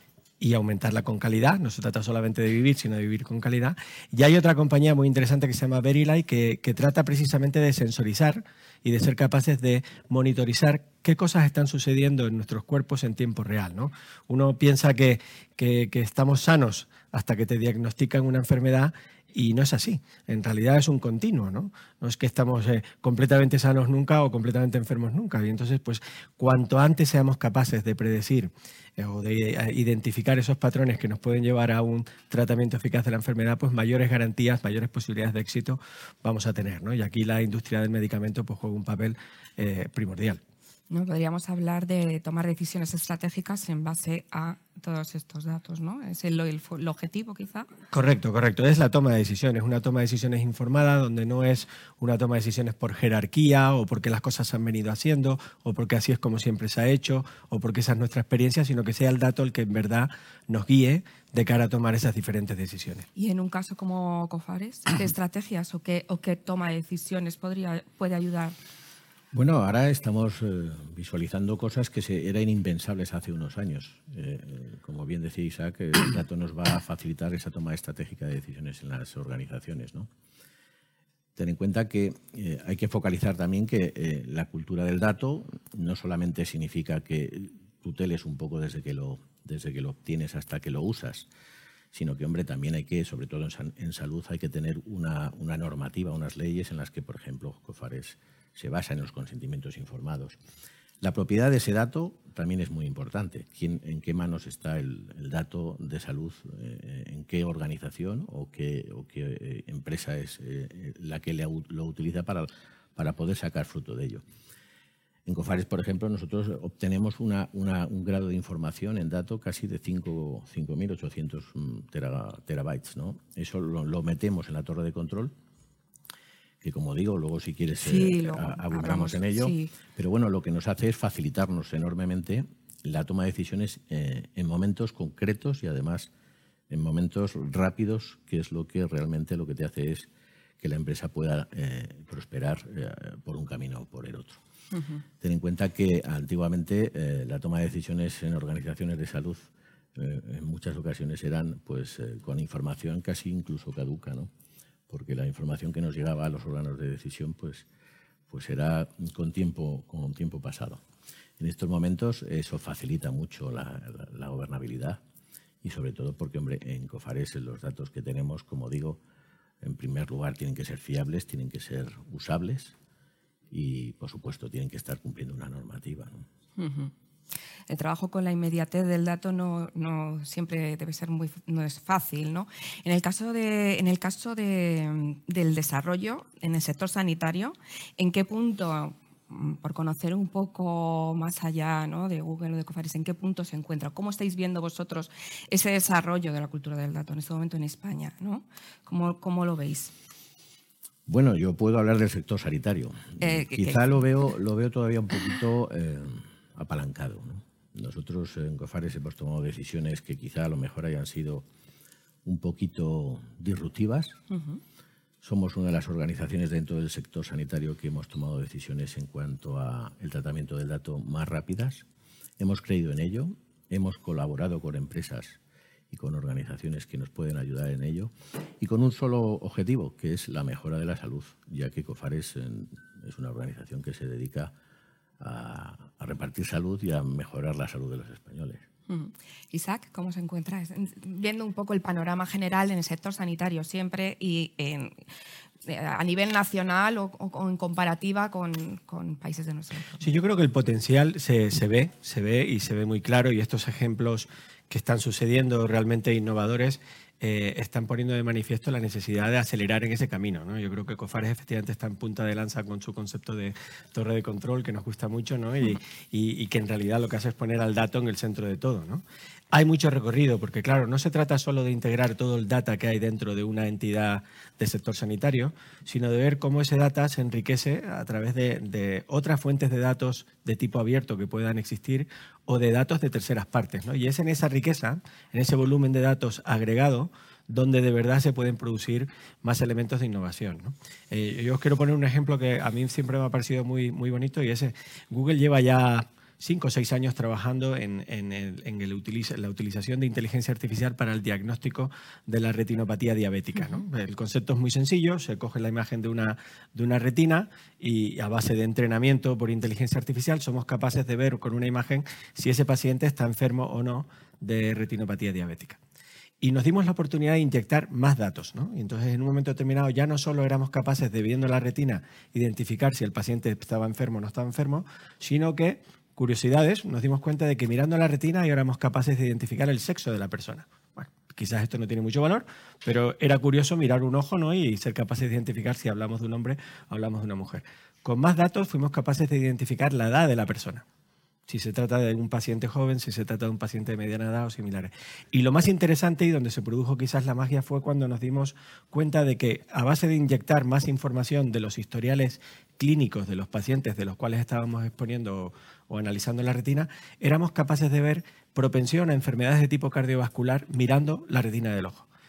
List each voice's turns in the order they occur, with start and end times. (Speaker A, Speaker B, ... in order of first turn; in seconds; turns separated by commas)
Speaker A: 0.4-40.4, Speaker B: 40.9-47.7, Speaker A: 47.9-63.1, Speaker B: 63.1-68.5, Speaker C: 69.3-80.1, Speaker C: 81.3-91.3, Speaker C: 91.9-100.4, Speaker C: 101.0-114.2, Speaker C: 115.2-125.3, Speaker C: 126.6-136.1, Speaker B: 127.8-129.7, Speaker C: 136.7-140.1, Speaker C: 140.6-144.4, Speaker B: 144.7-145.0, Speaker C: 145.2-154.3, Speaker C: 154.9-157.7, Speaker C: 158.3-160.8, Speaker C: 161.4-165.0, Speaker C: 165.6-169.0, Speaker C: 169.6-172.7, Speaker C: 173.5-176.2, Speaker B: 176.6-176.9, Speaker B: 177.7-199.9, Speaker C: 201.1-211.4, Speaker B: 203.2-203.9, Speaker C: 212.2-214.2, Speaker B: 214.3-214.6, Speaker C: 215.2-221.8, Speaker C: 222.4-225.4, Speaker C: 225.9-234.5, Speaker C: 235.2-238.6, Speaker B: 238.9-244.9, Speaker B: 245.6-250.1, Speaker A: 250.0-315.8, Speaker A: 316.4-340.8, Speaker A: 341.5-362.1